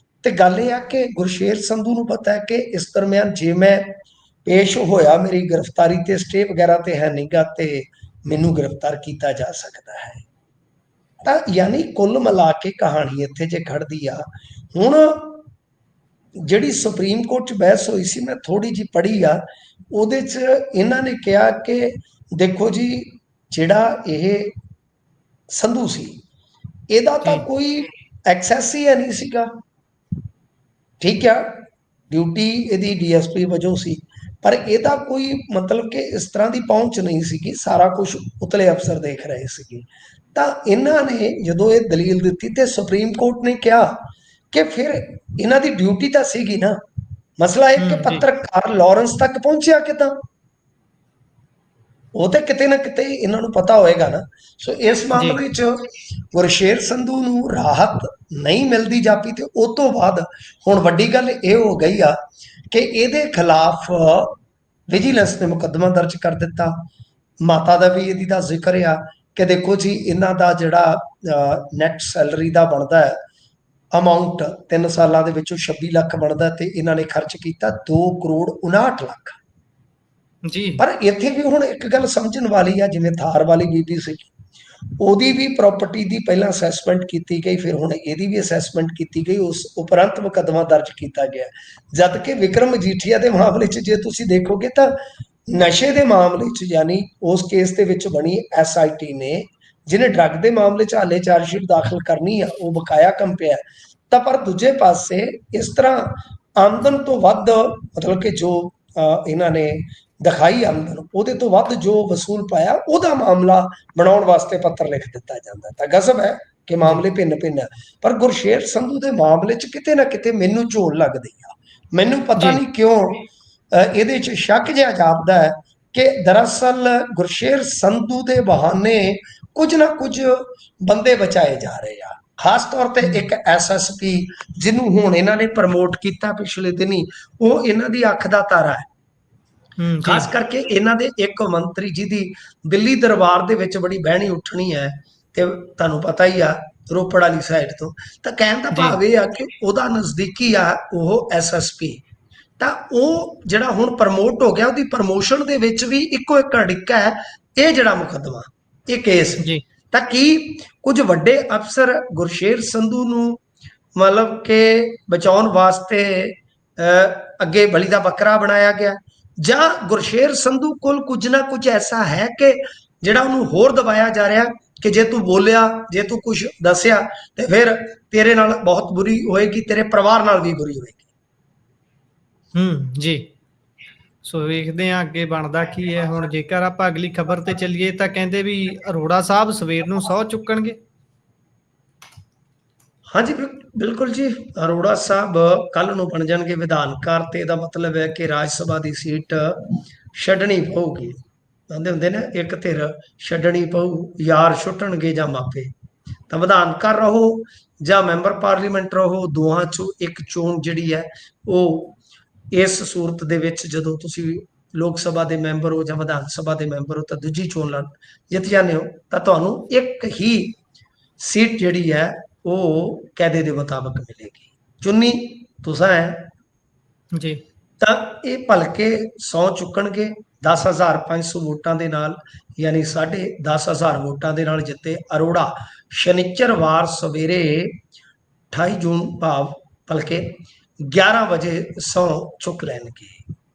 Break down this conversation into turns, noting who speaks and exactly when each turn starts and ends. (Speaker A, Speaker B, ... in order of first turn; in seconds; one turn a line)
Speaker A: 0.2-10.2
Speaker A: 11.2-15.4
Speaker A: 16.4-24.5
Speaker A: 25.5-26.2
Speaker A: 26.9-29.5
Speaker A: 31.0-46.8
Speaker A: 47.4-50.2
Speaker B: 47.8-48.2
Speaker A: 52.1-62.2
Speaker A: 62.7-64.4
Speaker A: 64.9-66.9
Speaker A: 67.4-73.2
Speaker A: 73.9-79.4
Speaker B: 80.4-80.8
Speaker A: 80.8-84.3
Speaker A: 85.0-138.9
Speaker B: 139.8-140.3
Speaker A: 140.0-152.0
Speaker B: 148.7-149.0
Speaker A: 152.6-163.4
Speaker B: 159.4-159.6
Speaker A: 163.9-181.1
Speaker B: 182.5-183.3
Speaker B: 184.2-190.8
Speaker A: 193.1-201.2
Speaker A: 201.7-205.7
Speaker A: 206.3-212.0
Speaker A: 212.5-220.6
Speaker A: 221.2-226.3
Speaker B: 227.1-227.4
Speaker A: 227.8-237.8
Speaker A: 238.5-243.2